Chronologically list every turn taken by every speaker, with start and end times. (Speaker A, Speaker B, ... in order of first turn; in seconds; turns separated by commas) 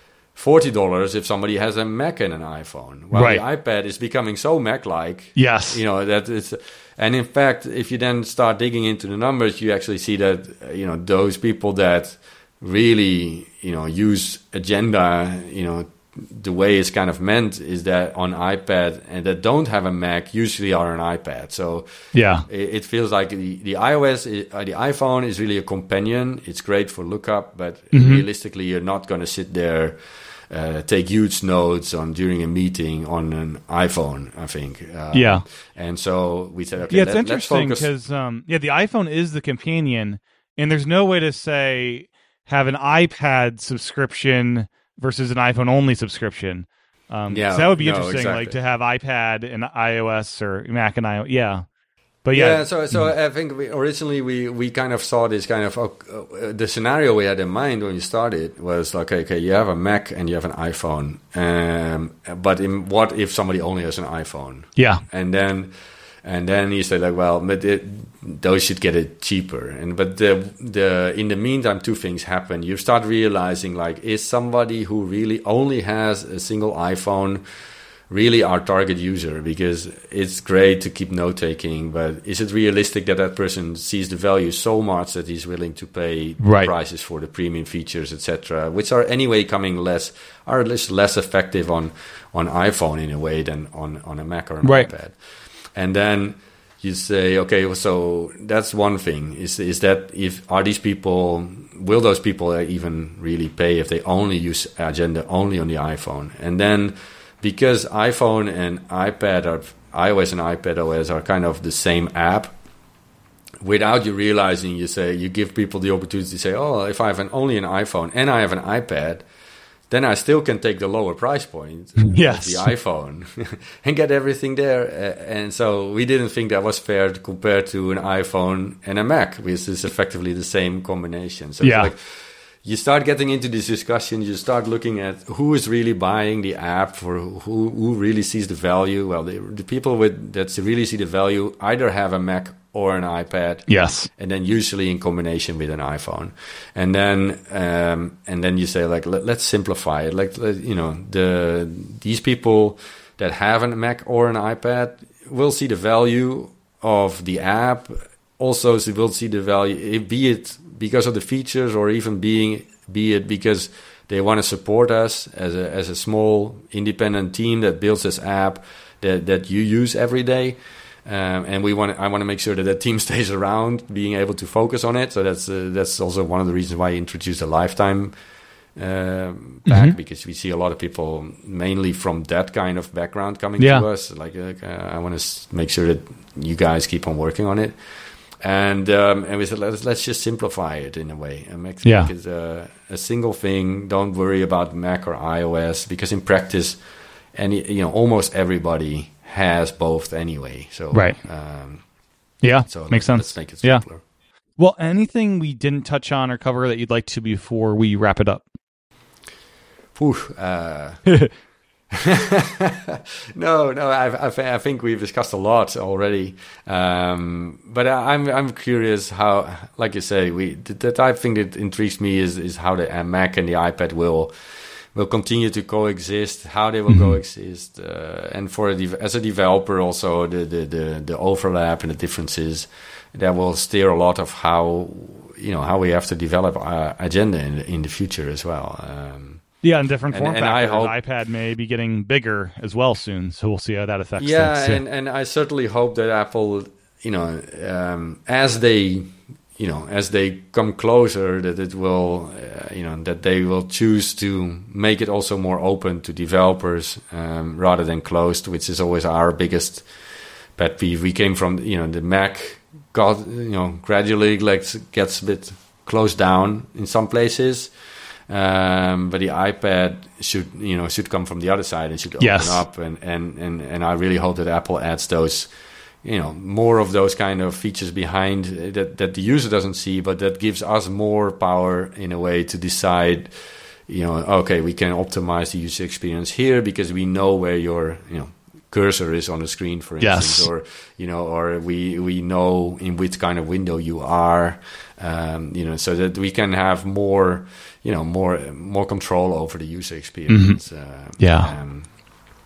Speaker A: 0.3-21.9, Speaker B: 3.1-3.4, Speaker B: 5.3-5.8, Speaker B: 22.1-22.4, Speaker A: 22.4-37.9, Speaker B: 27.9-28.2, Speaker B: 35.1-35.4, Speaker B: 36.9-51.6, Speaker A: 47.3-48.5, Speaker B: 52.2-53.1, Speaker A: 52.3-65.7, Speaker B: 64.8-65.0, Speaker A: 66.2-77.4, Speaker A: 78.1-95.2, Speaker B: 86.4-86.7, Speaker B: 94.6-94.9, Speaker A: 95.7-112.5, Speaker A: 113.6-119.2, Speaker A: 119.9-132.0, Speaker B: 122.1-122.7, Speaker B: 131.6-131.9, Speaker A: 132.6-178.1, Speaker B: 143.7-144.1, Speaker A: 178.8-187.8, Speaker B: 179.7-179.9, Speaker B: 183.6-183.8, Speaker A: 188.4-196.8, Speaker B: 191.8-192.1, Speaker A: 197.3-201.8, Speaker B: 200.9-201.2, Speaker B: 202.4-203.8, Speaker A: 202.7-204.0, Speaker B: 204.6-208.4, Speaker A: 209.9-211.1, Speaker A: 211.9-224.3, Speaker A: 224.9-239.4, Speaker B: 226.9-227.2, Speaker B: 239.6-244.8, Speaker A: 240.1-240.9, Speaker A: 244.2-259.9, Speaker A: 260.6-267.7, Speaker A: 268.3-275.5, Speaker B: 272.2-272.6, Speaker A: 276.0-283.3, Speaker A: 283.9-301.9, Speaker B: 290.0-290.5, Speaker B: 300.3-300.6, Speaker B: 301.2-301.5